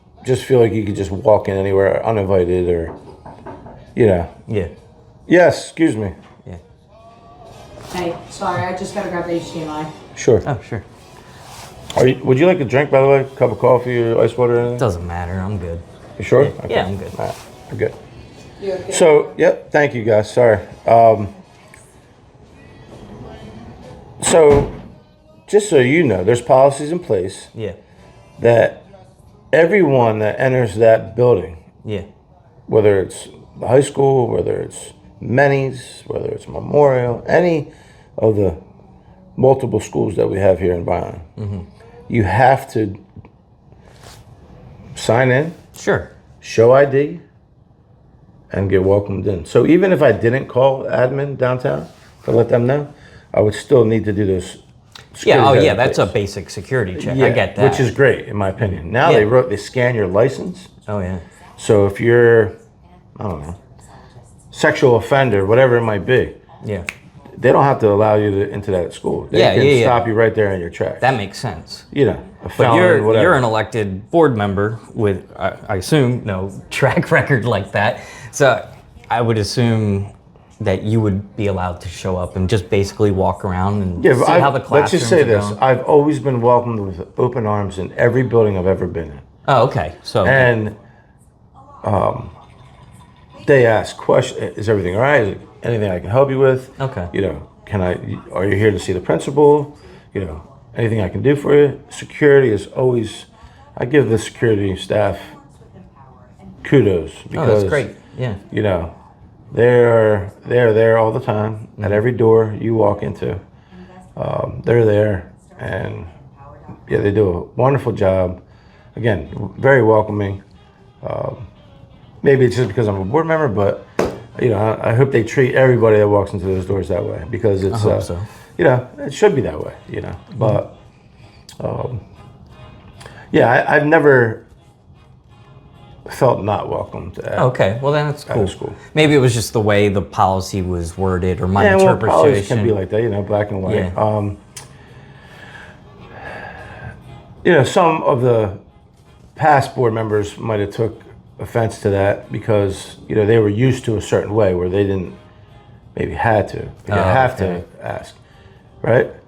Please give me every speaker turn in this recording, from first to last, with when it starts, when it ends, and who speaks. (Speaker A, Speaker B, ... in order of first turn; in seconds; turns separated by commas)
Speaker A: 0.2-2.9, Speaker A: 4.0-4.3, Speaker A: 5.3-6.1, Speaker B: 7.9-9.9, Speaker A: 10.2-10.5, Speaker C: 10.4-10.9, Speaker A: 11.9-14.9, Speaker C: 14.8-15.8, Speaker A: 16.2-18.0, Speaker C: 16.4-17.1, Speaker B: 18.6-19.0, Speaker A: 18.8-21.3, Speaker A: 24.2-24.8, Speaker A: 25.5-27.5, Speaker A: 28.4-28.8, Speaker A: 29.5-31.6, Speaker A: 32.7-38.6, Speaker A: 39.4-41.3, Speaker C: 41.4-41.7, Speaker A: 42.1-43.0, Speaker A: 45.0-45.6, Speaker C: 45.8-46.1, Speaker A: 46.4-47.2, Speaker A: 48.5-54.6, Speaker A: 55.1-56.1, Speaker C: 55.2-57.9, Speaker A: 57.0-60.7, Speaker C: 58.6-59.3, Speaker C: 60.9-61.2, Speaker A: 61.6-62.5, Speaker A: 63.2-63.6, Speaker A: 64.5-66.4, Speaker C: 66.6-66.9, Speaker A: 67.4-71.2, Speaker C: 69.3-70.1, Speaker C: 71.0-71.8, Speaker A: 71.9-73.4, Speaker C: 72.6-85.6, Speaker A: 84.0-89.2, Speaker C: 89.5-90.5, Speaker A: 90.2-90.8, Speaker A: 91.8-92.3, Speaker A: 93.4-105.4, Speaker C: 96.8-97.1, Speaker A: 106.6-107.9, Speaker C: 107.3-108.4, Speaker A: 108.5-108.9, Speaker A: 109.5-113.4, Speaker A: 114.2-116.1, Speaker A: 116.9-118.4, Speaker A: 119.0-120.4, Speaker A: 121.0-121.5, Speaker A: 122.2-130.7, Speaker C: 127.7-128.3, Speaker A: 131.6-132.0, Speaker A: 133.3-134.4, Speaker A: 136.1-137.5, Speaker C: 137.4-142.8, Speaker A: 138.3-138.8, Speaker A: 141.6-144.4, Speaker C: 143.7-143.9, Speaker A: 147.4-148.6, Speaker A: 149.4-155.2, Speaker A: 155.9-158.2, Speaker C: 156.9-157.6, Speaker A: 158.8-159.1